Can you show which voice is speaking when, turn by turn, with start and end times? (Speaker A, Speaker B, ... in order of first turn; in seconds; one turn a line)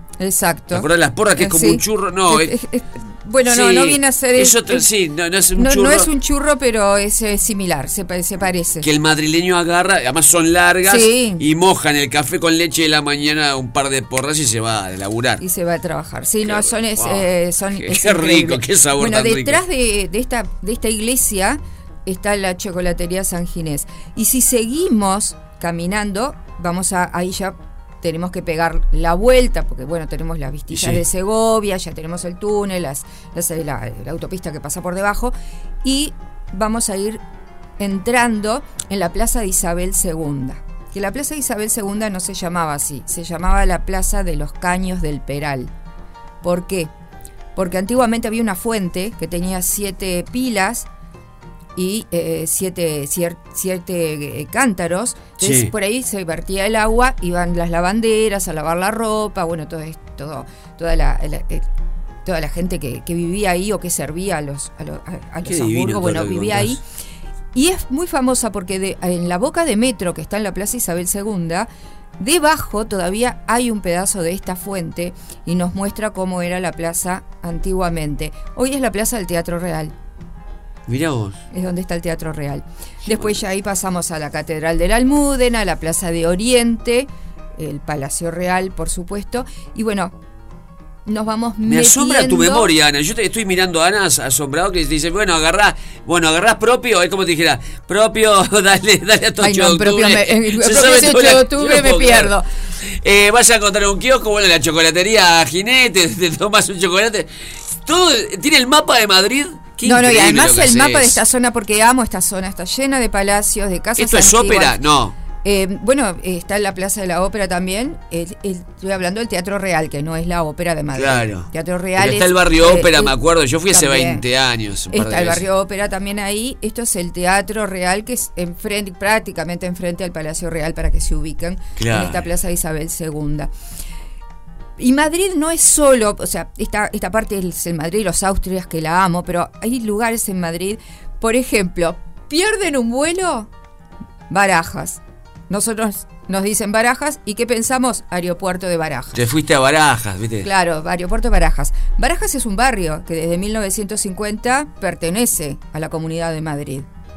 Speaker A: 0.2-4.8
Speaker B: 0.7-2.5
Speaker B: 3.4-6.1
Speaker A: 5.5-8.9
Speaker B: 8.8-15.4
Speaker A: 10.8-11.4
Speaker A: 15.4-37.2
Speaker B: 16.4-19.6
Speaker B: 30.7-31.0
Speaker A: 37.8-45.7
Speaker A: 46.4-46.9
Speaker A: 47.5-50.9
Speaker A: 51.7-61.6
Speaker B: 55.4-55.7
Speaker A: 62.2-66.8
Speaker B: 65.4-66.8
Speaker A: 67.5-71.7
Speaker A: 72.2-79.9
Speaker B: 80.9-81.4
Speaker A: 81.5-90.1
Speaker A: 91.0-92.7
Speaker B: 91.6-111.2
Speaker A: 99.4-102.5
Speaker A: 109.8-114.8
Speaker B: 114.0-115.2
Speaker A: 115.4-123.2
Speaker B: 120.9-125.4
Speaker A: 123.7-124.2
Speaker A: 124.9-133.5
Speaker B: 131.8-132.2
Speaker A: 134.8-143.5
Speaker A: 144.3-149.2
Speaker B: 149.1-150.5
Speaker A: 150.4-156.9